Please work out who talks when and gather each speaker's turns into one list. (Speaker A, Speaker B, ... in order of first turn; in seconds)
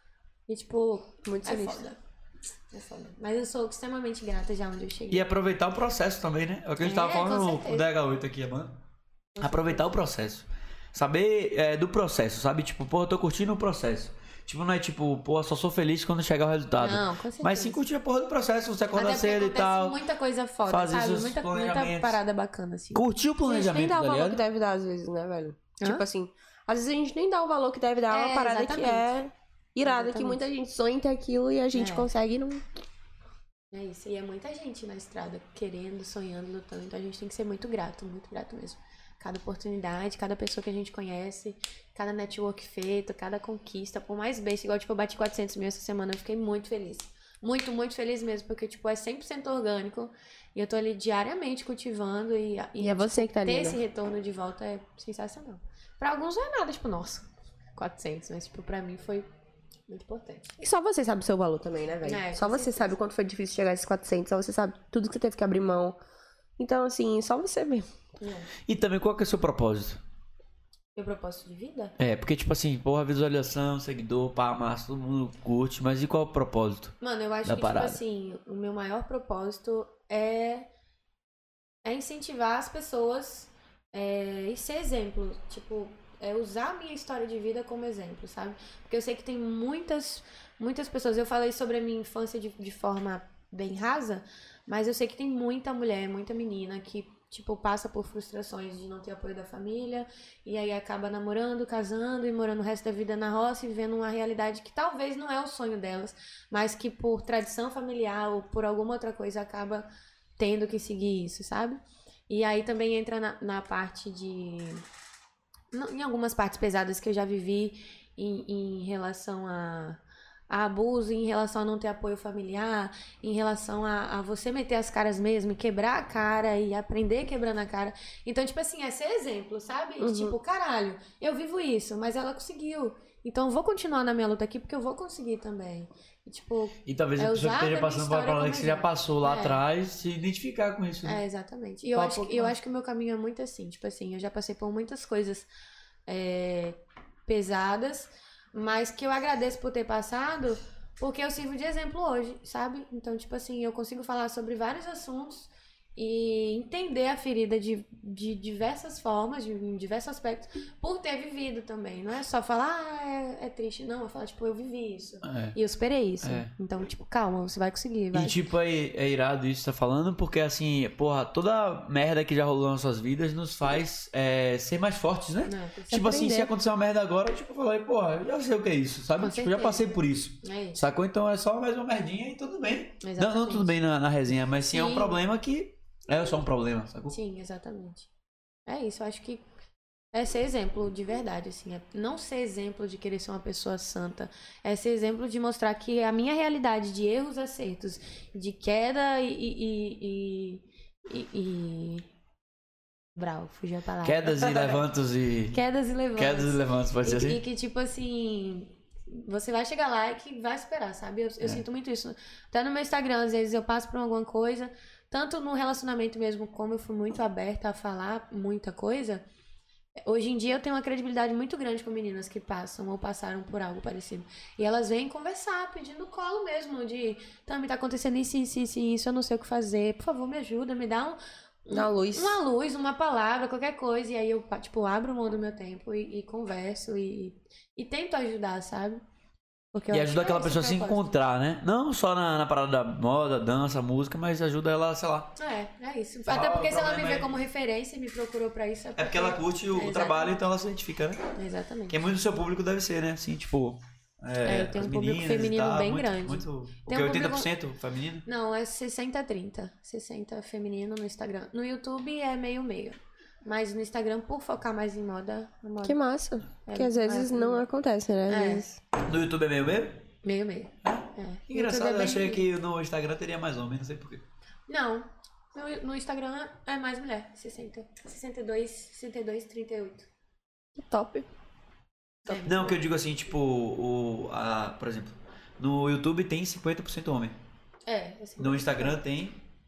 Speaker A: 0.5-1.9, 2.7-5.2, 6.8-7.8, 9.4-9.9, 16.8-17.8, 18.9-23.1, 28.1-29.1, 29.8-30.4, 31.7-32.1, 33.7-59.2, 59.9-60.5, 62.0-63.0, 68.2-68.5, 71.0-71.9, 77.0-80.7, 81.8-109.9, 110.4-114.8, 115.7-139.6, 141.0-145.5, 146.1-168.3, 175.4-176.1, 179.2-180.8, 183.0-183.7, 184.7-185.2, 187.1-188.1, 188.7-189.4, 190.1-202.1, 203.2-204.8, 205.5-219.2, 220.0-239.0, 239.7-241.1, 245.4-250.4, 251.3-252.0, 254.4-257.5, 258.2-266.0, 266.6-267.7, 268.3-268.6, 270.2-272.4, 274.7-280.1, 282.2-282.8, 287.9-289.0
Speaker B: 1.2-2.0, 23.4-32.6, 52.8-53.8, 60.6-66.0, 66.6-67.9, 130.0-130.3, 175.9-176.5, 231.7-232.4, 265.8-268.8, 280.8-281.3
Speaker C: 5.1-8.8, 9.4-20.0, 20.7-22.2, 22.9-24.4, 68.7-70.0, 72.0-78.0, 136.8-141.2, 141.9-142.6, 165.2-165.6, 166.2-166.5, 168.1-187.2, 204.0-205.6, 206.1-207.4, 239.9-245.3, 246.3-247.3, 249.0-251.2, 251.9-258.2, 269.0-270.1, 270.8-274.2, 282.4-287.4, 288.4-289.4